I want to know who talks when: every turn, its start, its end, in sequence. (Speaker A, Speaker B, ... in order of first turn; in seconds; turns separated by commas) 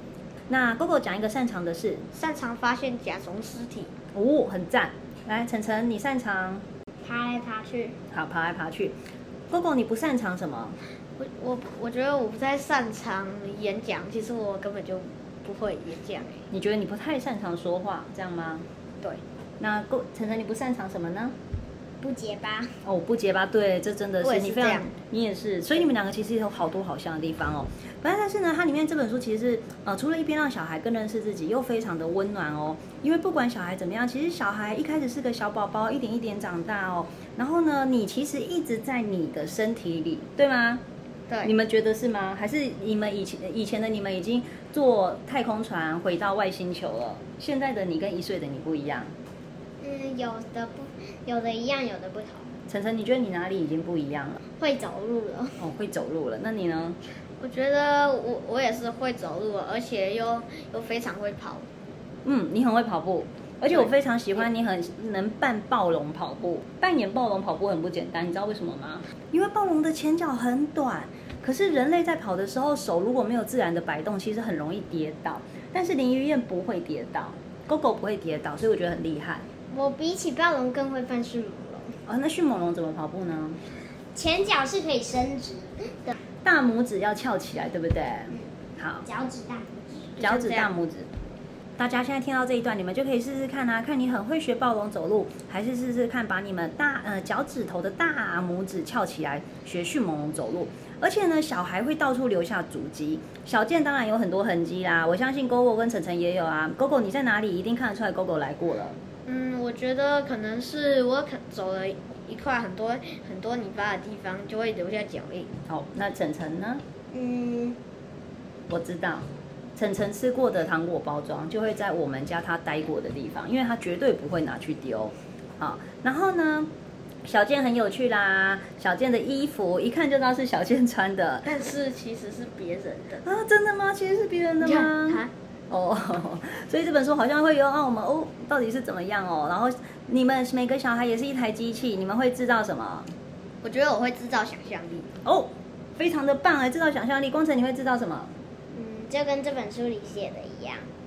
Speaker A: 0.5-2.1, Speaker B: 2.1-3.9, Speaker A: 4.1-6.6, Speaker C: 7.0-8.0, Speaker A: 8.1-9.0, Speaker A: 9.5-10.8, Speaker B: 11.2-16.4, Speaker A: 16.5-18.6, Speaker A: 19.6-21.3, Speaker C: 22.0-22.7, Speaker A: 22.8-40.8, Speaker B: 24.2-24.9, Speaker A: 41.4-49.1, Speaker C: 49.8-52.5, Speaker A: 52.7-54.4, Speaker C: 54.6-55.6, Speaker A: 55.6-57.0, Speaker B: 57.4-61.6, Speaker A: 62.2-79.5, Speaker C: 79.7-82.0, Speaker A: 82.0-83.6, Speaker C: 84.1-86.1, Speaker A: 86.4-89.0, Speaker C: 89.0-90.1, Speaker B: 90.2-90.7, Speaker A: 90.2-91.1, Speaker A: 91.8-109.0, Speaker B: 109.2-115.5, Speaker A: 115.7-116.8, Speaker C: 117.1-117.8, Speaker A: 118.7-126.7, Speaker A: 127.2-131.5, Speaker B: 131.4-133.2, Speaker A: 133.2-143.1, Speaker B: 134.6-135.3, Speaker B: 143.6-145.1, Speaker A: 145.2-148.3, Speaker C: 148.7-150.8